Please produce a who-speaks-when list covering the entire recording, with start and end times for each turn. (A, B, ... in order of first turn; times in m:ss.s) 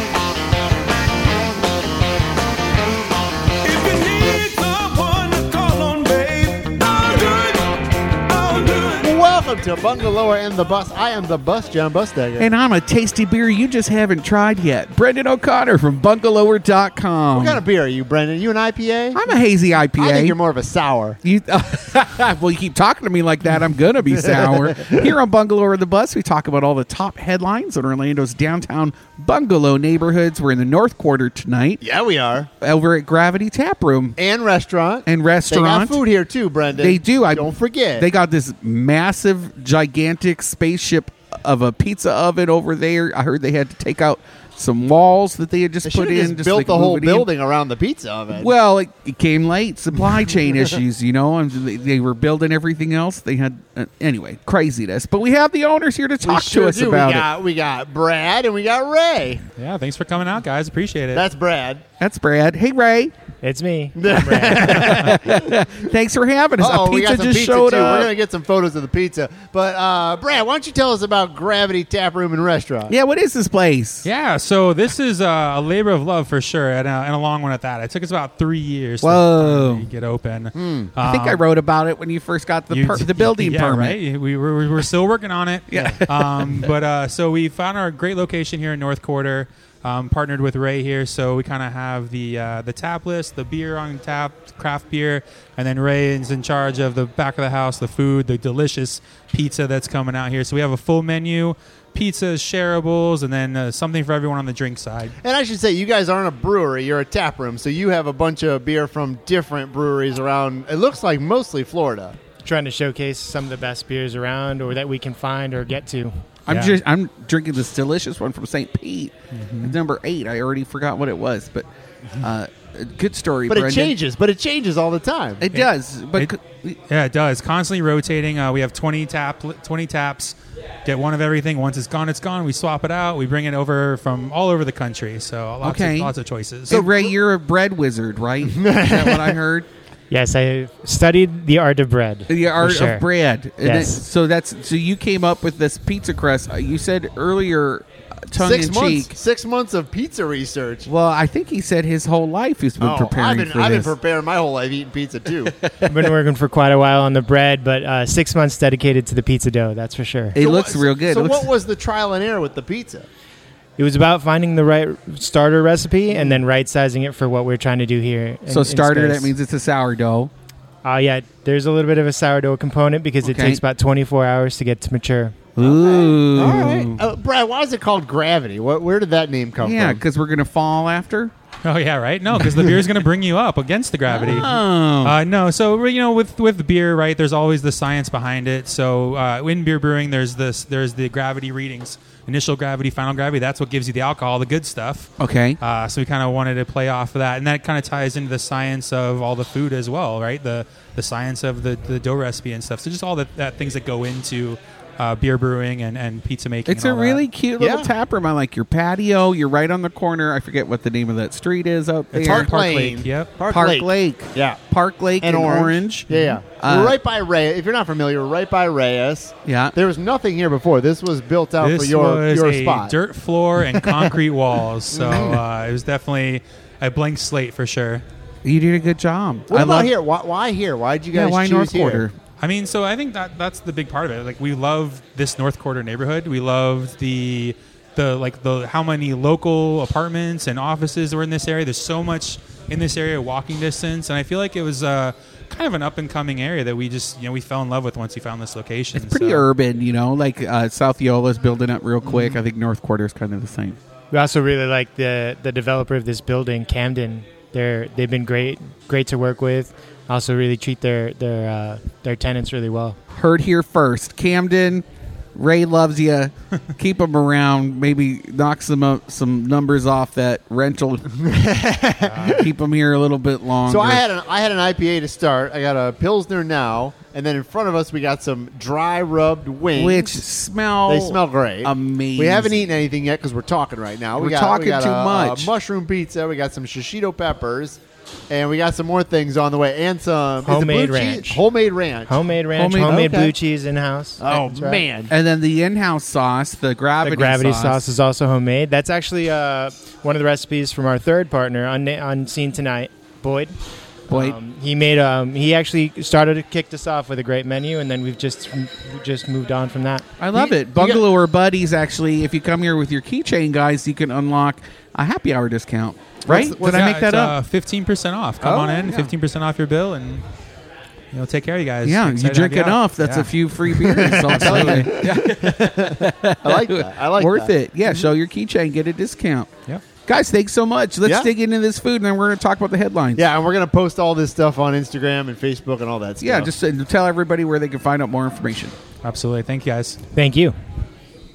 0:03.6-0:09.1 A
0:09.0-0:12.5 B
0:12.4-0:17.6 C
0:17.3-0:19.3 B
0:19.1-0:20.4 C
0:20.0-0:21.2 B
0:21.2-0:31.8 C
0:24.7-0:25.1 B
0:31.8-0:32.5 B
0:32.6-0:34.2 C
0:34.2-0:38.1 B
0:35.0-0:36.0 C
0:36.8-0:47.3 C
0:45.8-0:48.5 B
0:48.4-0:57.3 C
0:56.2-0:59.4 B
0:59.6-1:01.2 D
1:01.1-1:01.8 B
1:02.0-1:03.1 C
1:03.4-1:05.1 E
1:04.0-1:05.9 B
1:04.4-1:08.1 C
1:06.6-1:12.9 B
1:12.9-1:14.1 C
1:14.0-1:21.4 D
1:19.0-1:19.9 C
1:20.5-1:20.9 B
1:21.0-1:24.0 C
1:22.7-1:45.2 D
1:25.7-1:26.7 C
1:45.2-1:52.2 B
1:52.4-1:56.2 E
1:56.4-2:01.6 C
1:56.5-1:56.8 D
1:59.3-1:59.8 D
2:02.2-2:03.9 C
2:03.5-2:05.5 B
2:05.4-2:06.8 C
2:05.5-2:06.3 D
2:06.9-2:16.9 D
2:15.6-2:16.1 C
2:16.7-2:19.7 C
2:16.7-2:17.0 B
2:18.5-2:19.4 B
2:20.1-2:23.0 E
2:22.3-2:29.1 C
2:23.6-2:24.0 E
2:28.3-2:30.9 B
2:30.9-2:33.9 C
2:32.8-2:35.5 B
2:35.4-2:36.1 C
2:35.9-2:40.4 E
2:40.3-2:41.5 C
2:40.4-2:43.1 B
2:43.8-2:49.3 E
2:48.5-2:50.3 C
2:50.8-2:55.6 E
2:53.2-2:53.6 C
2:55.6-2:57.0 C
2:55.6-3:00.0 B
2:59.6-3:01.3 C
3:01.6-3:27.2 D
3:02.3-3:02.9 C
3:04.1-3:05.2 C
3:15.2-3:15.6 C
3:26.7-3:32.5 C
3:27.6-3:27.9 B
3:32.1-3:33.4 D
3:32.2-3:34.6 B
3:33.4-3:37.0 C
3:35.2-3:42.9 B
3:39.4-3:39.7 C
3:41.6-3:48.0 D
3:43.8-3:44.1 B
3:44.9-3:45.4 B
3:48.4-3:49.9 C
3:49.5-3:52.0 B
3:51.1-3:52.1 C
3:52.4-4:09.4 D
4:08.9-4:13.8 C
4:12.1-4:12.3 B
4:14.1-4:23.0 E
4:23.1-4:31.1 C
4:31.2-4:32.5 B
4:32.1-4:32.4 D
4:32.4-4:34.0 C
4:33.7-4:40.2 B
4:39.7-4:42.7 C
4:40.8-4:52.1 B
4:44.2-4:45.5 C
4:50.4-4:51.4 E
4:52.1-4:54.8 E
4:52.5-4:53.1 C
4:52.8-4:53.3 B
4:54.2-4:55.1 B
4:55.1-4:57.8 C
4:57.0-5:03.5 E
5:04.1-5:04.4 C
5:04.1-5:10.0 E
5:10.2-5:17.4 C
5:10.3-5:11.0 B
5:16.3-5:16.9 B
5:16.6-5:20.2 D
5:18.4-5:18.9 B
5:21.1-5:25.1 D
5:21.8-5:33.2 C
5:23.9-5:28.0 B
5:33.2-5:36.5 B
5:36.2-5:38.8 C
5:39.0-5:40.0 D
5:40.1-5:40.5 E